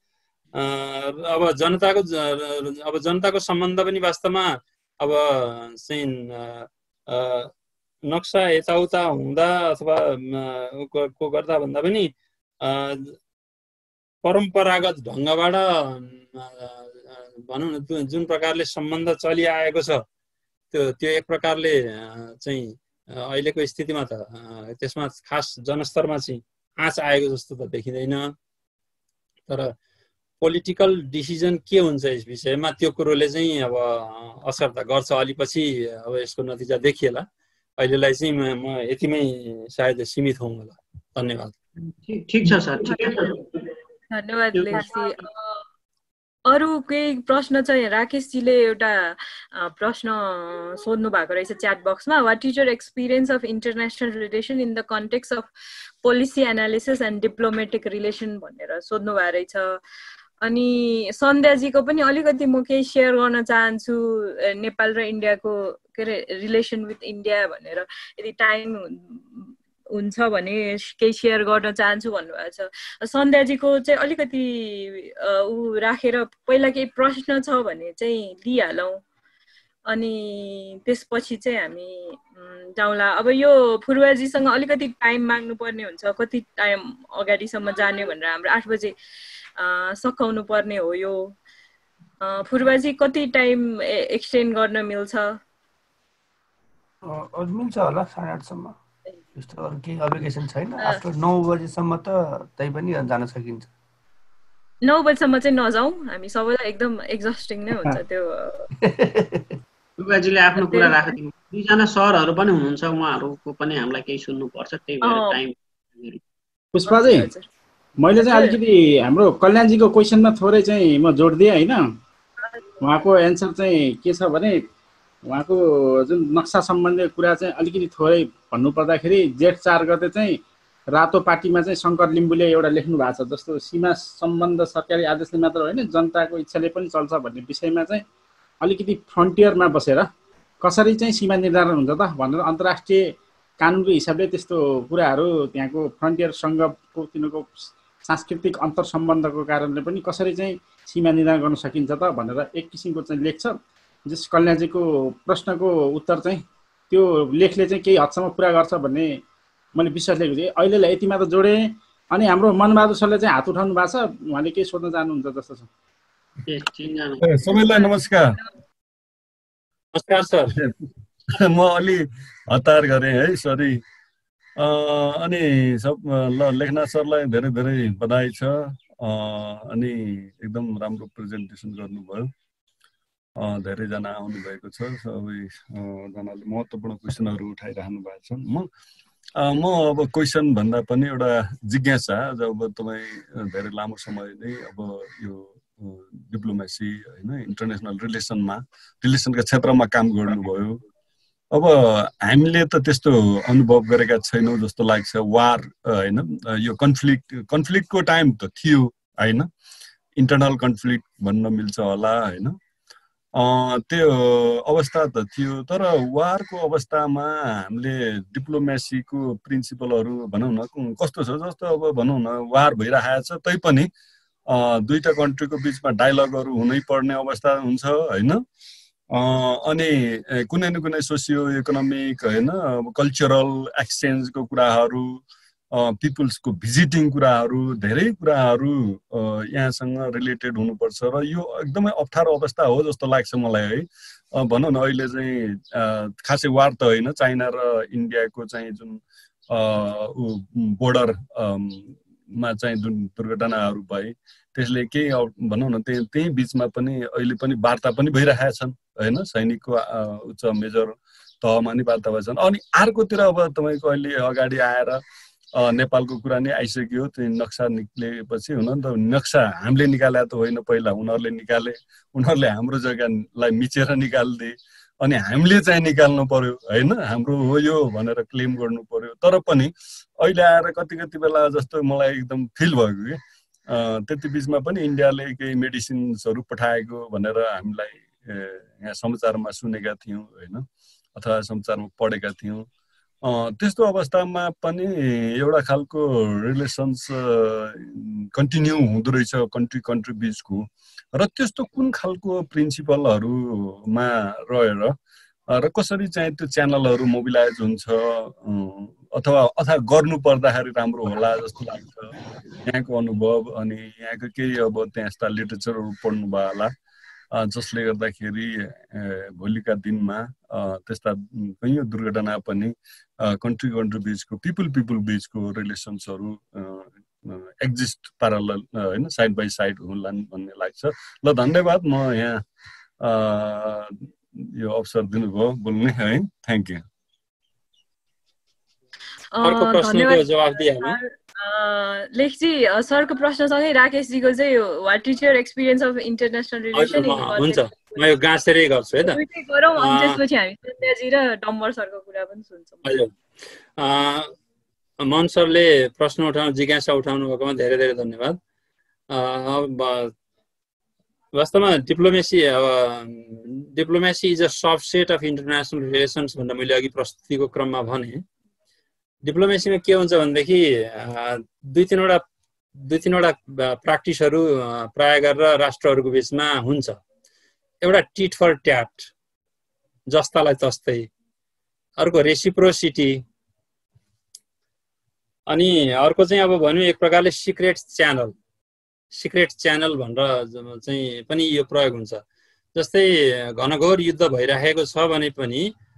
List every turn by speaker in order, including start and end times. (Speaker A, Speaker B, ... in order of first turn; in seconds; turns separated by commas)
Speaker A: 0.6-7.5, Speaker A: 8.1-13.2, Speaker A: 14.2-20.1, Speaker A: 20.7-28.3, Speaker A: 29.5-29.7, Speaker A: 30.4-37.2, Speaker A: 37.8-41.5, Speaker B: 42.0-43.7, Speaker C: 42.8-43.3, Speaker C: 44.1-45.3, Speaker B: 44.5-45.0, Speaker C: 46.5-55.5, Speaker C: 56.0-59.8, Speaker C: 60.4-79.0, Speaker C: 79.9-88.9, Speaker C: 89.6-91.3, Speaker C: 92.2-95.4, Speaker D: 97.0-98.8, Speaker D: 99.4-103.7, Speaker C: 104.8-108.7, Speaker D: 108.8-109.2, Speaker B: 110.0-116.2, Speaker C: 110.6-111.0, Speaker C: 115.0-115.4, Speaker E: 116.7-117.3, Speaker C: 116.9-117.5, Speaker E: 118.0-121.8, Speaker C: 118.2-118.6, Speaker E: 122.8-124.6, Speaker E: 125.3-138.1, Speaker E: 138.6-140.1, Speaker E: 140.6-159.2, Speaker E: 159.8-165.7, Speaker B: 166.5-167.2, Speaker F: 167.2-168.4, Speaker C: 167.7-168.1, Speaker A: 169.9-170.5, Speaker F: 171.3-173.8, Speaker F: 174.6-182.3, Speaker F: 183.4-188.7, Speaker F: 189.4-200.8, Speaker F: 201.5-209.5, Speaker F: 210.2-212.6, Speaker F: 213.4-223.9, Speaker F: 224.5-228.4, Speaker F: 229.1-235.2, Speaker F: 235.7-265.0, Speaker F: 265.6-292.7, Speaker F: 293.2-305.0, Speaker F: 305.5-316.7, Speaker F: 317.4-322.7, Speaker F: 323.2-332.4, Speaker F: 333.0-336.8, Speaker C: 339.4-348.1, Speaker A: 339.4-341.0, Speaker A: 346.8-349.2, Speaker C: 349.1-352.9, Speaker A: 349.8-350.2, Speaker A: 352.9-353.1, Speaker A: 353.8-354.3, Speaker A: 355.0-358.4, Speaker A: 359.1-360.1, Speaker A: 361.4-368.2, Speaker A: 369.2-372.2, Speaker A: 372.8-377.0, Speaker A: 377.8-379.1, Speaker A: 380.1-381.1, Speaker A: 382.0-383.2, Speaker A: 385.5-388.3, Speaker A: 389.1-392.2, Speaker A: 392.8-395.7